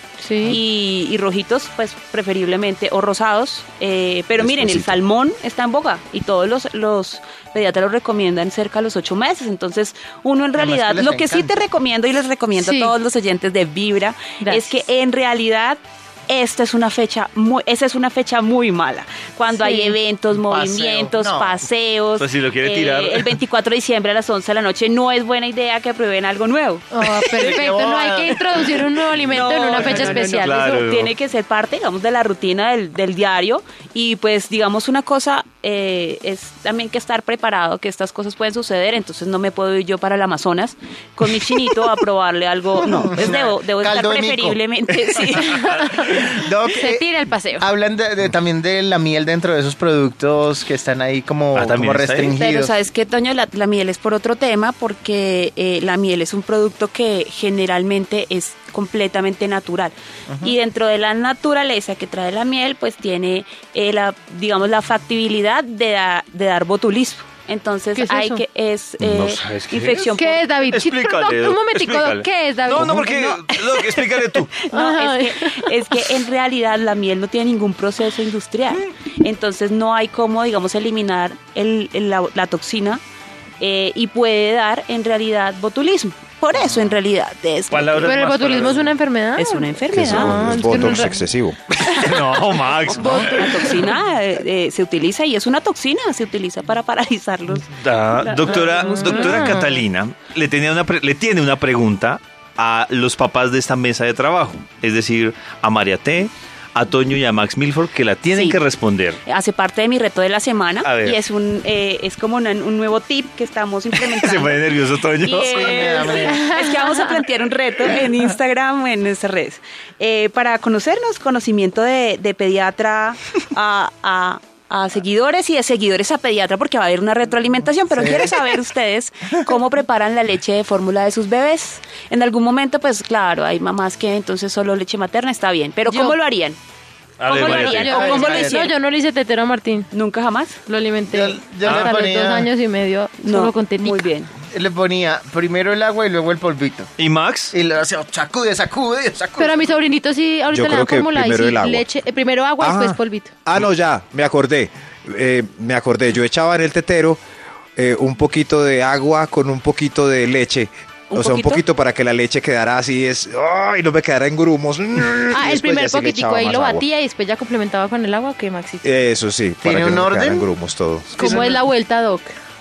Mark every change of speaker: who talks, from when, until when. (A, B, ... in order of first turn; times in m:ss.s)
0:00.2-0:00.6 A
0:00.4-0:27.6 B
0:04.4-0:05.0 C
0:10.6-0:11.5 D
0:12.6-0:12.9 A
0:14.4-0:14.8 A
0:19.6-0:20.0 A
0:20.4-0:21.5 D
0:22.2-0:23.3 E
0:26.9-0:30.8 A
0:27.3-0:28.5 D
0:28.7-0:45.8 B
0:29.8-0:31.1 E
0:42.9-0:44.6 D
0:45.4-0:47.7 A
0:46.1-0:47.1 D
0:47.6-0:52.7 D
0:51.5-0:52.4 E
0:52.4-1:10.5 B
1:00.3-1:00.5 D
1:08.0-1:08.4 A
1:09.0-1:10.1 E
1:10.2-1:13.1 A
1:10.7-1:14.5 E
1:12.8-1:23.0 B
1:14.7-1:15.6 A
1:23.6-1:28.7 B
1:27.7-1:28.9 E
1:28.0-1:31.3 A
1:29.4-1:31.0 B
1:29.9-1:31.6 C
1:31.8-1:33.7 E
1:32.0-1:32.3 A
1:32.8-1:39.6 B
1:33.0-1:33.8 A
1:37.7-1:49.2 E
1:38.5-1:39.8 A
1:48.3-1:48.6 B
1:49.2-1:54.7 B
1:50.8-1:51.2 E
1:54.0-1:55.7 E
1:55.2-2:16.6 B
1:55.5-1:56.5 D
2:07.9-2:08.4 D
2:15.9-2:16.2 A
2:17.2-2:18.0 E
2:17.2-2:18.8 B
2:17.3-2:19.9 A
2:17.8-2:18.7 D
2:19.9-2:20.6 B
2:20.7-2:24.0 A
2:21.1-2:22.5 D
2:21.6-2:21.9 E
2:23.2-2:24.3 B
2:24.5-2:26.9 D
2:27.0-2:27.6 E
2:27.5-2:29.7 D
2:29.4-2:33.3 A
2:30.5-2:31.8 C
2:32.6-2:37.2 C
2:37.8-2:46.9 C
2:41.1-2:41.6 B
2:45.3-2:48.9 A
2:48.8-2:51.6 C
2:49.6-2:50.5 D
2:51.2-2:52.3 A